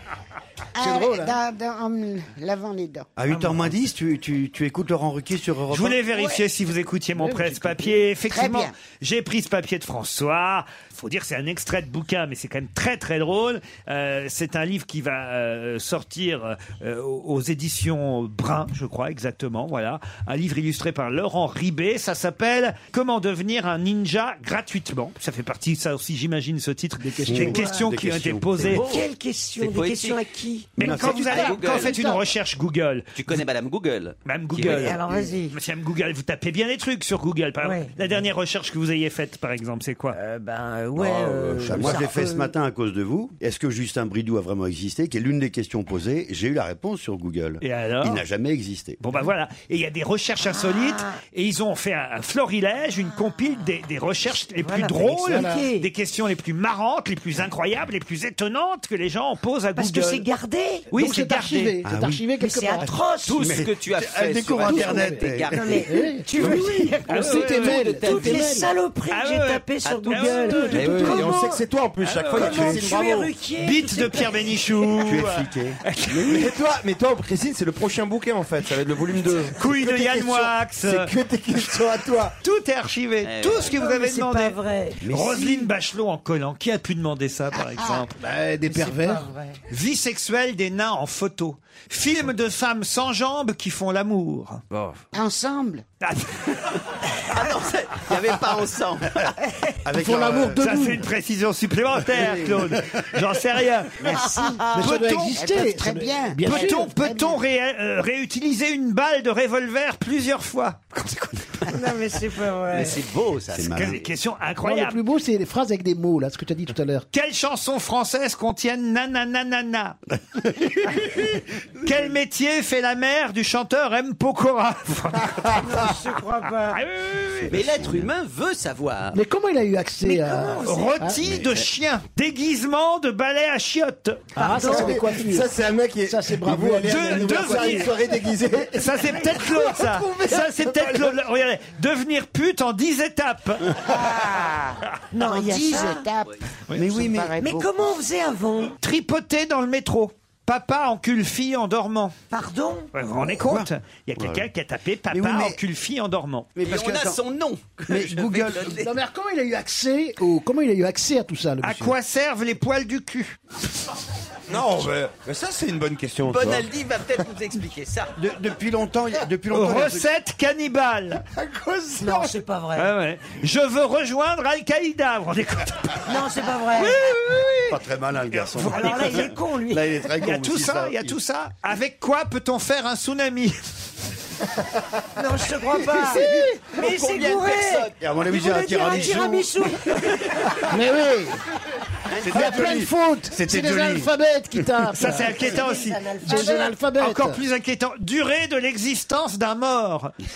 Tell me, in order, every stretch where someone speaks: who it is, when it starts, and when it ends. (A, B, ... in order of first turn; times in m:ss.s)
0:00.8-0:03.1 A
0:00.8-0:01.3 B
0:03.2-0:06.0 C
0:03.3-0:03.6 D
0:05.7-0:28.8 E
0:06.1-0:06.4 A
0:07.2-0:08.0 B
0:08.3-0:08.7 A
0:27.0-0:27.6 B
0:27.3-0:28.8 C
0:27.5-0:27.8 D
0:28.7-0:29.1 F
0:28.8-0:31.0 D
0:29.6-0:30.2 F
0:30.8-0:32.0 F
0:30.8-0:33.2 E
0:30.8-0:32.2 B
0:33.1-0:35.2 F
0:34.2-0:40.2 E
0:34.6-0:35.6 D
0:37.6-0:38.2 D
0:40.1-0:42.5 D
0:41.5-0:49.0 C
0:41.6-0:42.0 G
0:47.6-0:48.2 E
0:49.0-1:00.3 E
0:50.4-0:51.2 D
0:53.1-0:53.7 D
0:54.6-0:55.9 D
0:55.2-0:55.6 B
0:59.8-1:00.9 D
1:00.9-1:01.8 E
1:00.9-1:02.9 B
1:01.8-1:02.2 C
1:02.3-1:03.5 D
1:03.2-1:08.7 F
1:03.4-1:05.5 C
1:04.7-1:05.3 B
1:04.7-1:11.6 D
1:05.8-1:08.7 B
1:07.1-1:07.8 E
1:09.1-1:10.9 E
1:09.8-1:11.2 F
1:10.7-1:11.2 B
1:10.7-1:13.3 G
1:12.0-1:12.8 E
1:12.2-1:14.7 D
1:13.6-1:16.5 E
1:15.0-1:15.8 C
1:16.1-1:22.3 G
1:19.6-1:21.1 E
1:22.4-1:28.1 E
1:23.2-1:23.8 F
1:23.6-1:25.6 D
1:25.1-1:25.4 C
1:27.7-1:28.1 A
1:28.2-1:29.2 B
1:28.7-1:29.6 D
1:29.7-1:34.6 E
1:35.1-1:35.8 A
1:36.0-1:36.5 E
1:37.2-1:39.3 F
1:39.8-1:40.6 C
1:39.9-1:41.0 B
1:40.6-1:44.1 E
1:44.1-1:44.9 D
1:44.1-1:44.6 A
1:44.7-1:46.9 B
1:44.8-1:45.4 E
1:45.3-1:47.4 A
1:46.4-1:51.7 E
1:51.7-1:53.0 D
1:52.7-1:53.9 F
1:53.5-1:54.0 C
1:53.7-1:55.0 E
1:54.6-1:57.0 B
1:57.1-2:00.0 E
2:01.8-2:05.9 E
2:05.6-2:06.8 D
2:06.7-2:07.6 E
2:07.5-2:09.2 F
2:09.1-2:11.2 B
2:10.0-2:11.0 D
2:10.6-2:14.4 E
2:14.4-2:17.9 B
2:14.4-2:15.0 D
2:14.6-2:18.9 G
2:16.8-2:17.9 E
2:18.7-2:23.7 E
2:20.6-2:21.1 G
2:23.9-2:27.8 A
2:25.1-2:26.0 D
2:26.8-2:27.3 C
2:27.3-2:28.7 D
2:28.8-2:32.1 E
2:32.3-2:32.9 D
2:32.9-2:36.5 E
2:33.4-2:34.4 C
2:35.1-2:35.6 C
2:36.6-2:37.2 C
2:36.6-2:38.9 F
2:37.9-2:38.8 C
2:38.8-2:41.9 B
2:41.6-2:43.4 E
2:44.5-2:46.6 G
2:46.2-2:48.1 F
2:48.2-2:50.0 C
2:49.5-2:51.2 E
2:52.0-2:52.9 D
2:52.8-2:56.1 E
2:56.0-2:57.0 D
2:56.8-2:57.3 E
2:57.7-2:59.2 C
2:58.3-2:59.3 E
2:58.7-3:00.1 D
2:59.7-3:01.1 C
3:00.2-3:03.5 E
3:05.2-3:10.2 D
3:06.1-3:06.5 B
3:06.7-3:08.0 F
3:08.0-3:09.5 C
3:08.8-3:09.1 F
3:10.7-3:11.4 B
3:12.1-3:14.1 C
3:12.3-3:15.5 B
3:12.3-3:12.8 G
3:14.9-3:16.0 E
3:15.0-3:16.8 D
3:16.2-3:17.4 B
3:17.0-3:20.1 E